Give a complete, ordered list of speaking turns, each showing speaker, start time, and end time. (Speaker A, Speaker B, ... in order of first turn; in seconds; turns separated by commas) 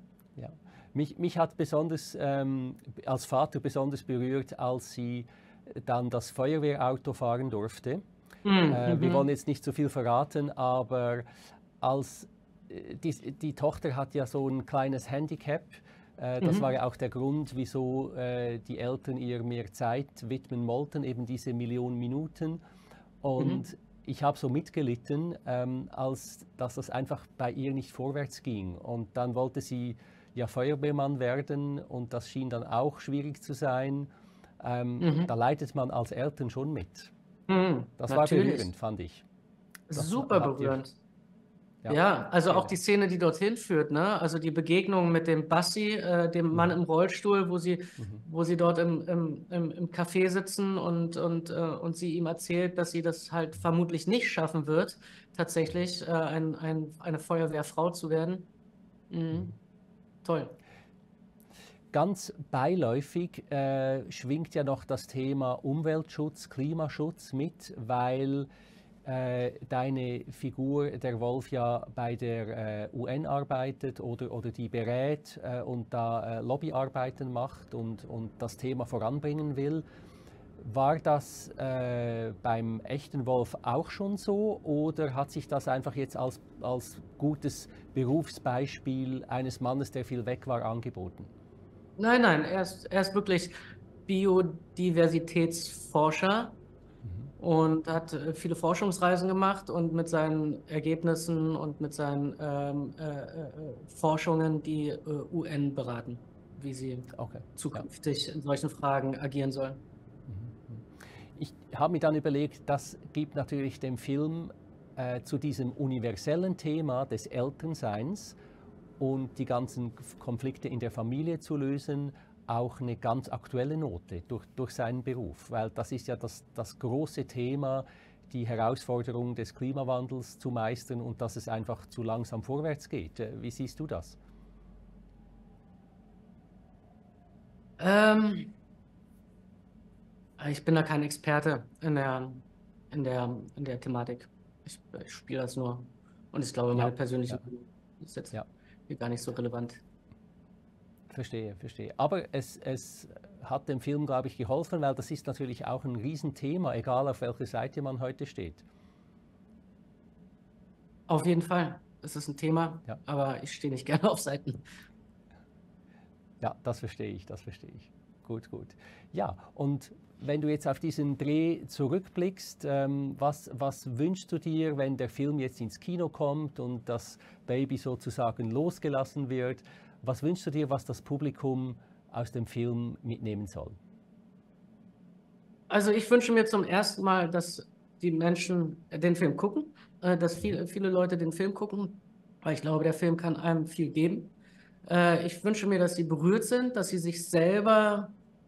Speaker A: 0.3-8.0, Speaker B: 8.4-9.3, Speaker A: 8.7-11.3, Speaker A: 11.8-22.6, Speaker B: 16.4-16.7, Speaker A: 23.2-37.1, Speaker B: 23.4-23.6, Speaker B: 35.0-35.3, Speaker B: 37.5-38.7, Speaker A: 38.0-39.2, Speaker B: 39.9-41.0, Speaker A: 39.9-40.8, Speaker A: 41.8-42.8, Speaker B: 41.9-58.5, Speaker A: 48.0-48.2, Speaker B: 59.1-59.5, Speaker B: 60.2-60.6, Speaker A: 61.9-68.5, Speaker A: 69.0-79.8, Speaker A: 80.6-91.3, Speaker B: 92.0-93.5, Speaker B: 94.1-96.6, Speaker B: 97.4-109.8, Speaker A: 107.2-107.8, Speaker A: 110.3-118.4, Speaker A: 119.0-134.2, Speaker B: 137.8-138.5, Speaker B: 140.4-148.3, Speaker A: 146.7-147.4, Speaker B: 148.9-149.8, Speaker A: 151.1-158.6, Speaker B: 161.1-164.7, Speaker A: 166.4-183.8, Speaker B: 185.7-194.3, Speaker B: 194.8-198.2